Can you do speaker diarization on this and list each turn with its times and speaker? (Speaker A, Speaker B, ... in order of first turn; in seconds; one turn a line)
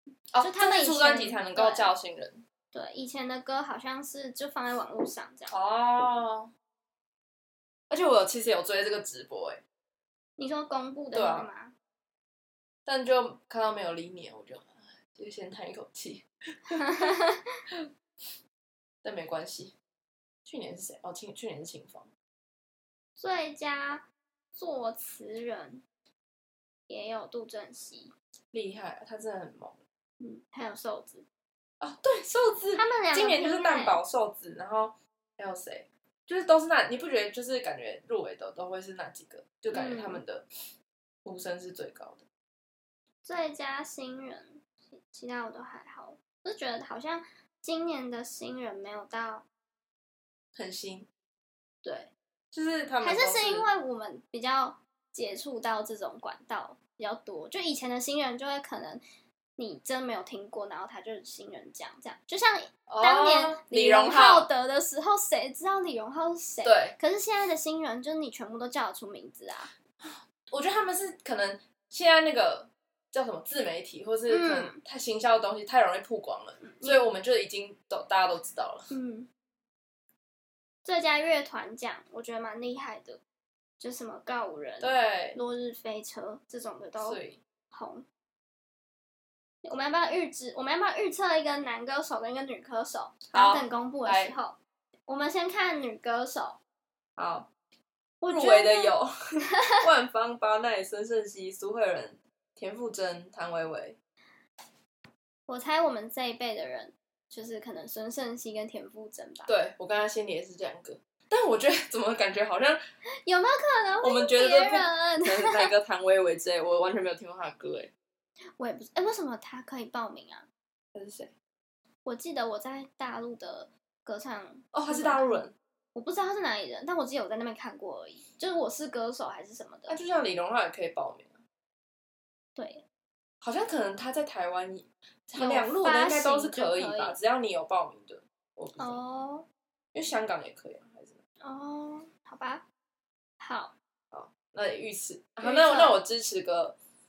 Speaker A: 0.3-2.4
Speaker B: 0.4-1.9
Speaker B: 2.7-5.5
Speaker A: 5.5-6.5
Speaker A: 7.9-9.6
Speaker B: 10.4-11.7
Speaker A: 11.1-11.5
Speaker A: 12.8-17.0
Speaker B: 16.8-17.4
Speaker A: 19.0-19.7
Speaker A: 20.4-22.1
Speaker B: 23.2-25.8
Speaker B: 26.9-28.1
Speaker A: 28.5-29.8
Speaker B: 30.2-31.2
Speaker A: 31.8-40.4
Speaker B: 32.7-34.0
Speaker B: 39.7-40.2
Speaker A: 41.2-42.2
Speaker B: 43.2-49.5
Speaker A: 50.5-51.1
Speaker B: 51.8-52.1
Speaker A: 52.5-53.7
Speaker B: 53.0-59.0
Speaker B: 59.6-69.7
Speaker A: 62.9-64.5
Speaker A: 66.6-67.0
Speaker A: 70.0-78.9
Speaker B: 74.3-74.8
Speaker B: 76.6-77.0
Speaker B: 78.9-79.3
Speaker B: 80.8-83.2
Speaker B: 83.8-87.2
Speaker A: 84.8-85.4
Speaker A: 87.0-87.4
Speaker B: 87.7-88.0
Speaker B: 89.6-96.6
Speaker A: 93.3-94.3
Speaker A: 97.2-97.5
Speaker B: 98.2-98.9
Speaker A: 98.3-104.0
Speaker B: 105.5-109.5
Speaker A: 109.5-112.8
Speaker B: 113.2-115.7
Speaker A: 114.0-117.9
Speaker B: 118.6-120.5
Speaker A: 120.9-121.3
Speaker B: 122.0-125.4
Speaker A: 124.7-125.5
Speaker B: 125.9-130.0
Speaker A: 129.9-131.4
Speaker B: 132.6-132.8
Speaker A: 133.4-139.0
Speaker B: 135.3-137.2
Speaker B: 138.8-139.5
Speaker A: 139.9-141.2
Speaker B: 141.4-142.7
Speaker B: 143.4-143.7
Speaker A: 144.1-146.8
Speaker B: 145.4-146.0